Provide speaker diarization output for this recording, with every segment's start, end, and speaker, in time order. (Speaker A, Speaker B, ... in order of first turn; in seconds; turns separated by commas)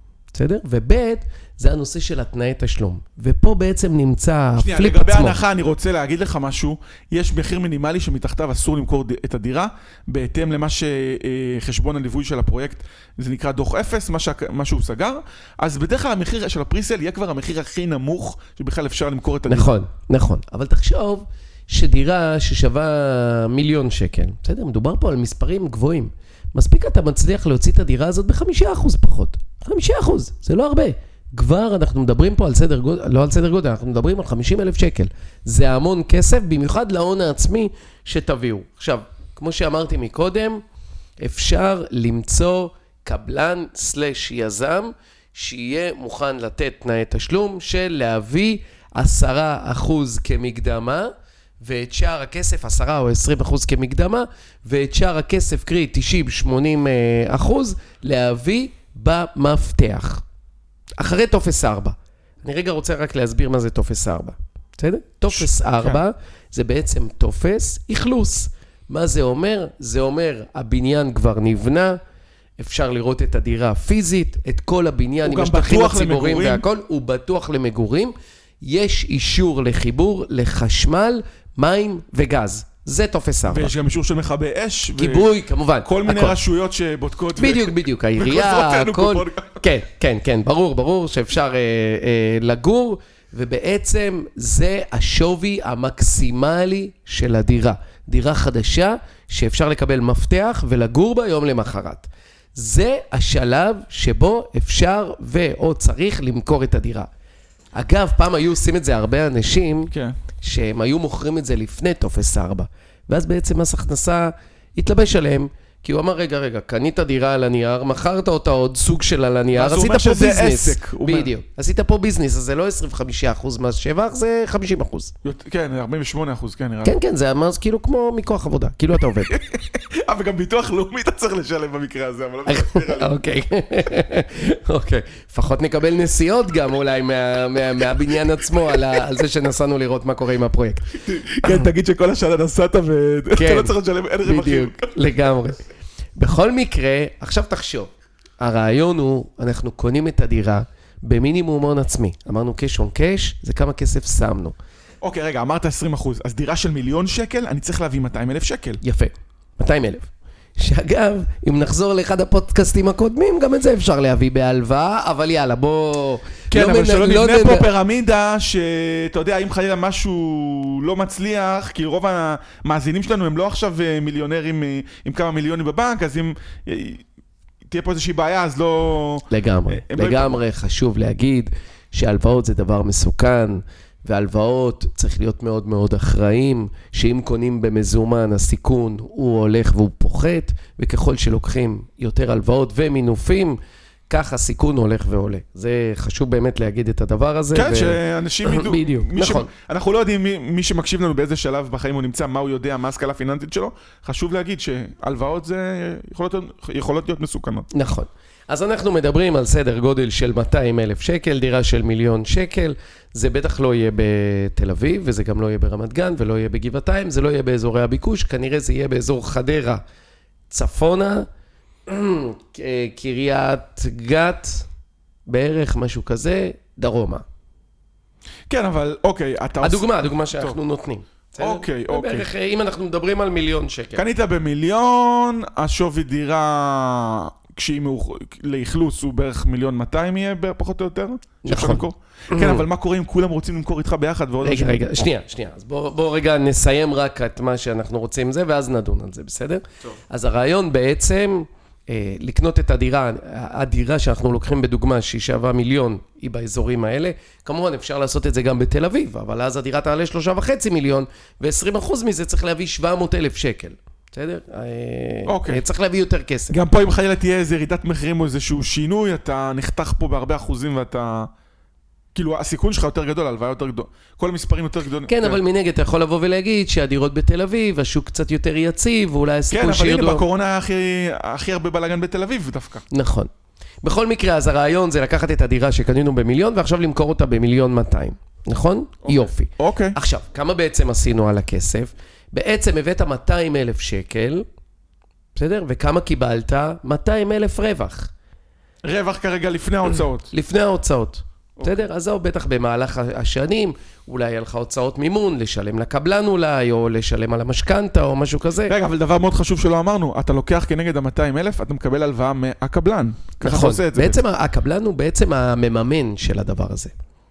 Speaker A: 0.3-5.4, Speaker B: 4.6-19.7, Speaker A: 19.5-40.6, Speaker A: 41.2-60.2, Speaker A: 61.0-72.0, Speaker B: 65.3-66.0, Speaker A: 72.6-83.7, Speaker B: 75.2-76.6, Speaker B: 83.5-89.6, Speaker A: 85.0-86.4, Speaker A: 87.4-107.1, Speaker A: 107.8-125.1, Speaker B: 109.9-110.2, Speaker B: 119.5-121.3, Speaker B: 125.2-127.0, Speaker A: 126.8-129.3, Speaker B: 129.3-133.2, Speaker A: 132.5-140.9, Speaker B: 141.0-144.9, Speaker A: 143.3-145.6, Speaker A: 146.2-154.6, Speaker B: 155.0-158.8, Speaker A: 158.8-167.7, Speaker B: 166.5-177.1, Speaker B: 177.7-180.4, Speaker A: 179.3-193.6, Speaker A: 194.1-199.5, Speaker B: 197.5-207.7, Speaker A: 207.7-219.8, Speaker A: 220.5-221.3, Speaker A: 221.9-224.7, Speaker A: 225.3-227.2, Speaker B: 228.5-230.6, Speaker A: 229.6-234.0, Speaker B: 231.4-232.3, Speaker B: 233.9-244.9, Speaker A: 241.4-242.7, Speaker A: 244.4-266.6, Speaker B: 265.3-265.6, Speaker B: 266.5-271.3, Speaker B: 272.1-275.4, Speaker A: 275.1-280.2, Speaker B: 279.5-282.8, Speaker A: 282.9-283.3, Speaker A: 283.8-294.4, Speaker B: 289.0-290.0, Speaker A: 295.4-298.1, Speaker B: 298.8-300.3, Speaker A: 300.3-308.7, Speaker B: 308.7-314.2, Speaker A: 313.4-316.9